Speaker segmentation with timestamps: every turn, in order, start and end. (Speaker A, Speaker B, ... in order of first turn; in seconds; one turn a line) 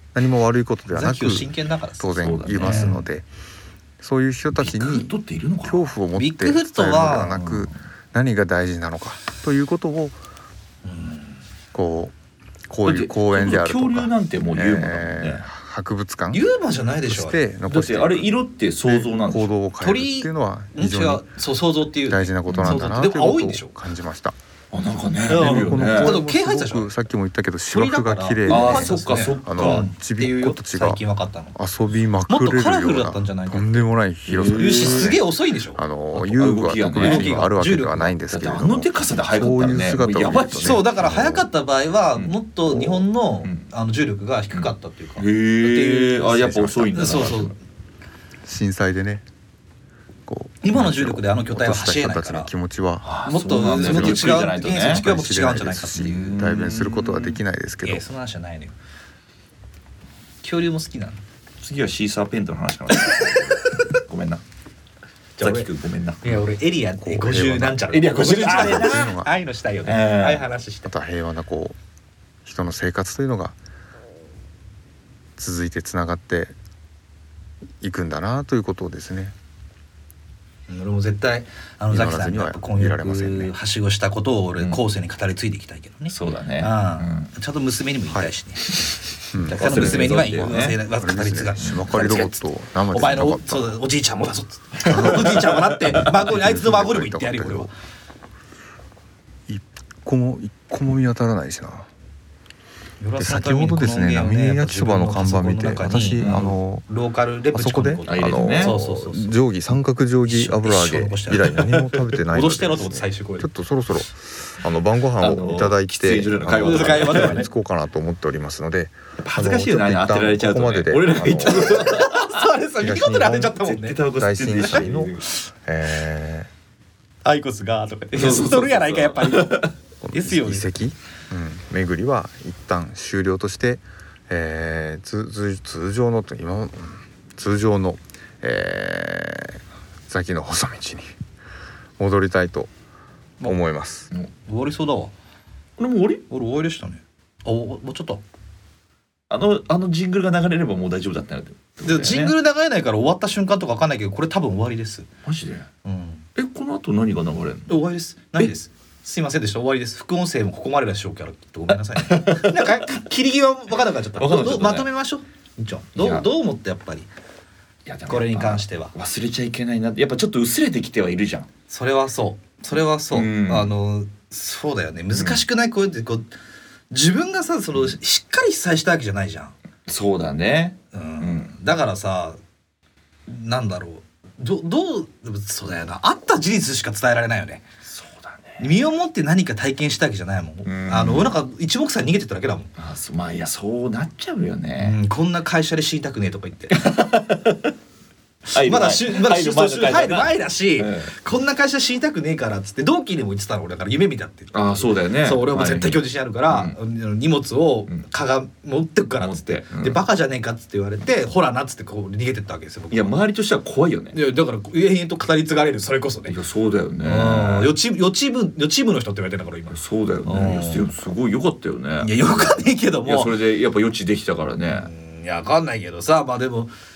Speaker A: 0.1-3.3
Speaker B: 0.9-3.0
Speaker C: 2.2-3.0
Speaker A: 4.0-5.1
Speaker C: 4.5-5.9
Speaker A: 5.6-10.2
Speaker B: 6.1-7.5
Speaker C: 7.4-7.7
Speaker B: 10.8-11.3
Speaker A: 11.7-12.1
Speaker A: 12.7-16.4
Speaker C: 12.8-15.5
Speaker B: 16.3-17.4
Speaker A: 17.0-18.3
Speaker C: 17.7-19.5
Speaker A: 18.8-21.2
Speaker B: 19.8-23.7
Speaker A: 22.1-24.4
Speaker C: 22.5-22.9
Speaker C: 24.7-26.2
Speaker B: 25.3-26.9
Speaker A: 25.3-31.0
Speaker B: 27.7-31.6
Speaker C: 28.5-29.9
Speaker A: 31.6-41.4
Speaker B: 32.3-33.8
Speaker C: 34.3-35.2
Speaker B: 34.5-35.8
Speaker C: 36.1-37.5
Speaker B: 37.0-38.1
Speaker C: 38.2-41.3
Speaker B: 40.6-47.5
Speaker C: 42.1-43.7
Speaker C: 44.5-47.5
Speaker A: 48.5-49.2
Speaker A: 50.3-53.1
Speaker B: 50.6-52.5
Speaker C: 53.0-55.0
Speaker B: 53.2-56.1
Speaker A: 53.7-58.0
Speaker C: 56.0-57.4
Speaker B: 57.8-58.8
Speaker B: 60.4-61.2
Speaker C: 61.6-64.4
Speaker B: 65.4-65.7
Speaker C: 65.4-66.4
Speaker B: 66.2-70.9
Speaker A: 67.0-67.9
Speaker C: 67.9-69.0
Speaker A: 68.4-69.3
Speaker C: 69.9-70.5
Speaker A: 70.8-71.8
Speaker A: 72.4-73.6
Speaker A: 75.4-76.5
Speaker A: 77.8-79.3
Speaker B: 80.7-88.9
Speaker A: 81.9-83.5
Speaker C: 86.1-87.3
Speaker C: 88.7-89.0
Speaker A: 89.3-93.8
Speaker B: 89.4-97.7
Speaker C: 89.5-90.8
Speaker C: 91.6-91.9
Speaker C: 94.9-95.3
Speaker A: 95.2-97.7
Speaker A: 99.5-101.9
Speaker B: 103.0-109.3
Speaker A: 103.2-106.9
Speaker C: 106.2-106.5
Speaker A: 107.5-122.0
Speaker C: 108.0-108.7
Speaker B: 110.3-113.5
Speaker C: 115.2-117.4
Speaker B: 116.5-117.5
Speaker C: 119.2-122.4
Speaker B: 121.5-124.8
Speaker A: 122.8-126.5
Speaker C: 123.6-125.3
Speaker B: 127.2-130.7
Speaker C: 128.1-129.7
Speaker A: 130.0-141.1
Speaker A: 142.0-142.7
Speaker A: 143.4-144.1
Speaker B: 144.4-145.1
Speaker C: 145.8-146.2
Speaker B: 146.3-148.2
Speaker C: 149.3-152.4
Speaker B: 151.8-155.1
Speaker C: 155.2-155.7
Speaker B: 155.8-156.2
Speaker C: 156.4-157.8
Speaker B: 157.7-167.1
Speaker C: 162.0-162.9
Speaker C: 164.2-164.9
Speaker C: 165.9-166.3
Speaker C: 167.8-171.5
Speaker B: 168.1-168.9
Speaker B: 171.7-176.3
Speaker C: 173.1-173.7
Speaker B: 176.9-179.6
Speaker C: 179.9-181.6
Speaker B: 180.9-182.4
Speaker B: 183.3-187.7
Speaker C: 187.9-188.7
Speaker B: 188.6-192.7
Speaker C: 190.6-191.3
Speaker C: 192.8-195.0
Speaker B: 194.8-196.9
Speaker C: 196.8-197.7
Speaker C: 198.5-201.2
Speaker B: 198.6-213.1
Speaker C: 204.5-206.8
Speaker C: 209.2-210.0
Speaker C: 212.9-214.2
Speaker B: 214.1-216.4
Speaker C: 216.3-217.7
Speaker B: 217.0-220.9
Speaker C: 219.7-224.9
Speaker B: 222.0-223.3
Speaker B: 224.7-226.7